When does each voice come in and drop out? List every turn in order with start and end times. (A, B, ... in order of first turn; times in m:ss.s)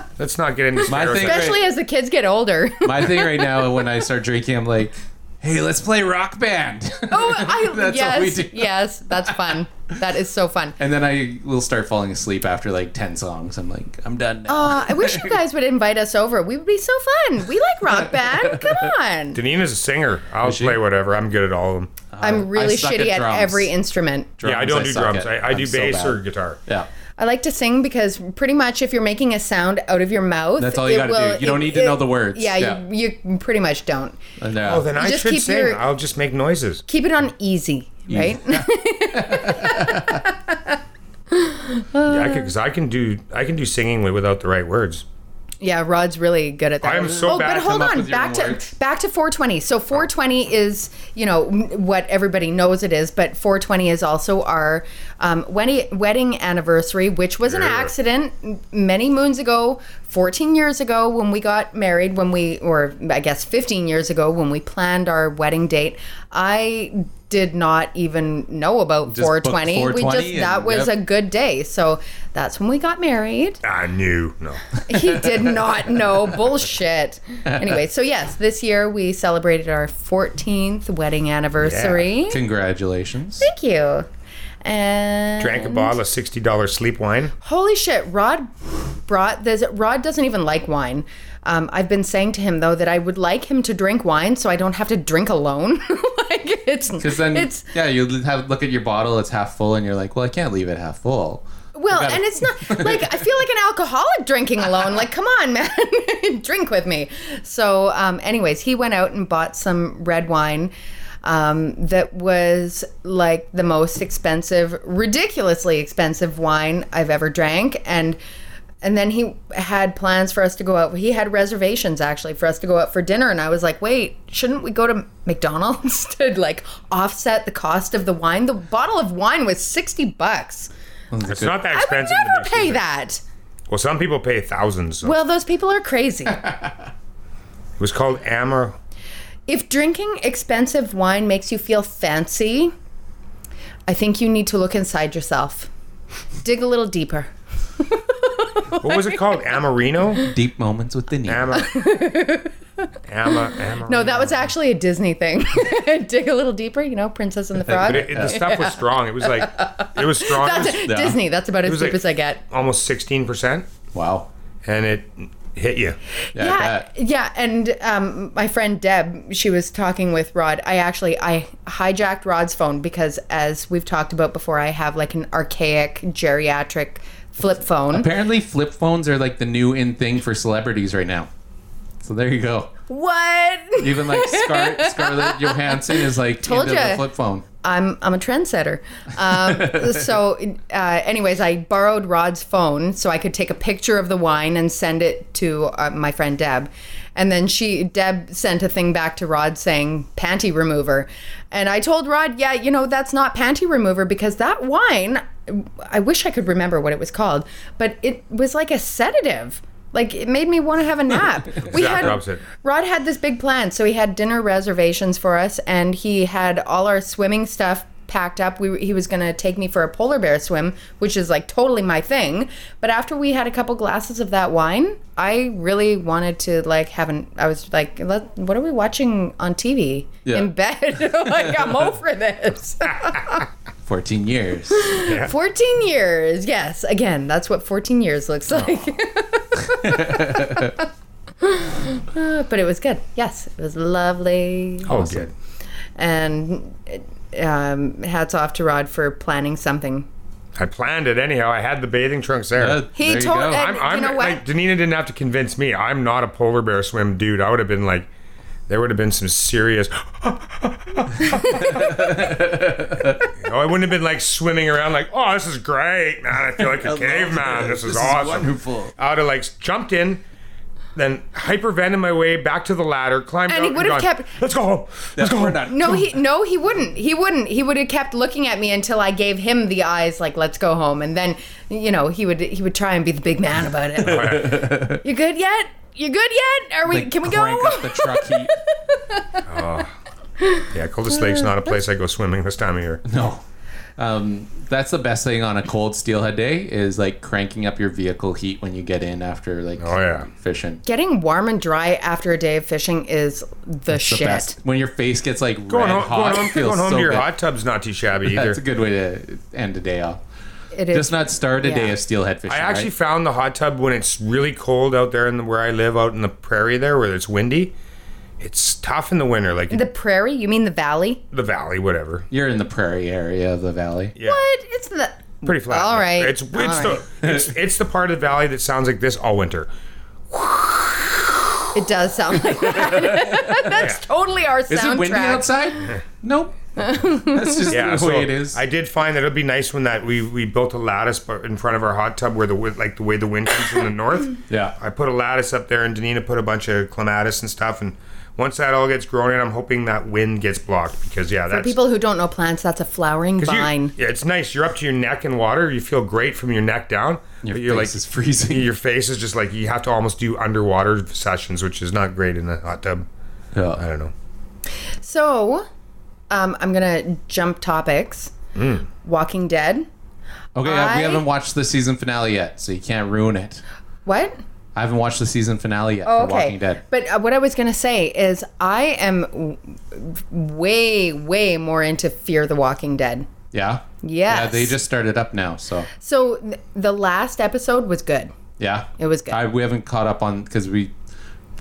0:00.2-0:01.5 A
0:00.9-0:01.7 B
0:01.1-0:03.8 C
0:02.8-0:09.5 B
0:07.1-0:10.8 C
0:10.8-0:15.4 B
0:14.5-0:19.4 C
0:17.9-0:18.9 B
0:19.3-0:21.9 A
0:20.4-0:20.8 B
0:22.1-0:23.7 B
0:22.2-0:24.3 C
0:24.4-0:26.9 B
0:24.4-0:26.6 A
0:27.2-0:34.2 C
0:30.6-0:32.8 B
0:34.4-0:34.9 B
0:34.6-0:36.8 A
0:35.0-0:35.8 C
0:36.9-0:40.8 C
0:38.1-0:40.2 B
0:41.3-0:42.5 C
0:42.1-0:45.0 A
0:45.6-1:13.6 C
0:46.8-0:47.7 A
0:47.0-0:48.7 B
0:57.4-0:57.9 A
1:09.1-1:10.9 B
1:13.6-1:14.6 A
1:14.8-1:22.4 C
1:17.5-1:17.8 B
1:21.6-1:22.0 A
1:22.3-1:23.5 B
1:23.4-1:24.1 C
1:24.6-1:25.9 C
1:25.4-1:27.3 A
1:27.4-1:28.5 C
1:29.1-1:37.6 C
1:37.0-1:43.3 B
1:41.7-1:50.7 C
1:51.2-1:58.2 C
1:58.8-2:10.7 C
2:11.1-2:11.6 B
2:11.2-2:12.8 A
2:11.7-2:13.2 C
2:13.7-2:15.2 A
2:15.0-2:16.4 C
2:17.8-2:18.8 A
2:19.5-2:22.7 C
2:23.9-2:25.7 C
2:26.4-2:29.4 C
2:28.8-2:30.3 A
2:30.2-2:31.6 B
2:31.3-2:31.7 A
2:31.5-2:32.5 C
2:33.1-2:34.5 A
2:33.8-2:42.4 C
2:37.6-2:38.4 B
2:37.8-2:40.8 A
2:40.7-2:41.2 B
2:41.6-2:43.7 A
2:43.9-2:44.3 B
2:44.6-2:46.0 A
2:46.3-2:58.1 C
2:46.3-2:46.9 B
2:57.9-3:01.3 B
3:02.0-3:02.7 B
3:02.9-3:07.0 C
3:03.8-3:07.4 B
3:07.6-3:53.4 C
3:09.4-3:10.0 B
3:31.7-3:32.4 A
3:51.1-3:51.9 B
3:53.8-3:54.9 B
3:54.7-4:00.8 C
3:55.0-3:55.3 A
3:59.7-4:00.7 B
4:01.4-4:05.2 C
4:04.8-4:05.3 A
4:06.0-4:10.1 C
4:10.6-4:12.8 A
4:12.6-4:13.6 B
4:12.9-4:14.4 C
4:13.5-4:18.1 A
4:18.7-4:22.2 A
4:21.6-4:23.2 B
4:23.4-4:30.2 A
4:26.6-4:28.9 B
4:30.9-4:35.7 A
4:33.5-4:34.3 C
4:35.1-4:36.1 B
4:35.6-4:49.5 C
4:44.0-4:45.0 B
4:44.0-4:44.6 A
4:46.8-4:48.5 B
4:49.5-4:49.9 A
4:50.4-4:51.7 C
4:50.7-4:53.0 A
4:53.0-4:53.4 B
4:54.0-5:00.8 B
4:59.8-5:00.3 A
5:00.8-5:04.5 C
5:03.9-5:07.3 B
5:05.7-5:08.6 A
5:08.2-5:10.2 B
5:10.7-5:11.9 C
5:10.9-5:12.9 B
5:12.5-5:17.7 A
5:18.4-5:19.8 A
5:19.7-5:21.2 C
5:21.3-5:22.3 A
5:22.3-5:24.1 B
5:24.2-5:24.4 A
5:24.2-5:27.0 C
5:25.4-5:29.7 A
5:27.2-5:27.5 B
5:30.3-5:31.2 A
5:31.7-5:35.9 C
5:32.5-5:33.8 B
5:34.7-5:38.6 B
5:36.8-5:37.6 C
5:37.7-5:51.8 A
5:44.5-5:44.7 B
5:51.5-5:53.9 C
5:53.4-6:03.1 A
5:57.4-5:58.7 B
6:03.5-6:03.8 B
6:03.7-6:04.1 A
6:05.0-6:05.6 C
6:06.3-6:08.3 C
6:08.5-6:08.8 A
6:09.0-6:09.9 C
6:10.5-6:13.6 B
6:10.6-6:11.2 C
6:14.0-6:14.4 C
6:14.7-6:16.8 B
6:16.0-6:23.3 C
6:23.5-6:25.9 B
6:24.0-6:24.7 C
6:26.0-6:28.3 C
6:28.6-6:30.9 B
6:29.0-6:29.4 C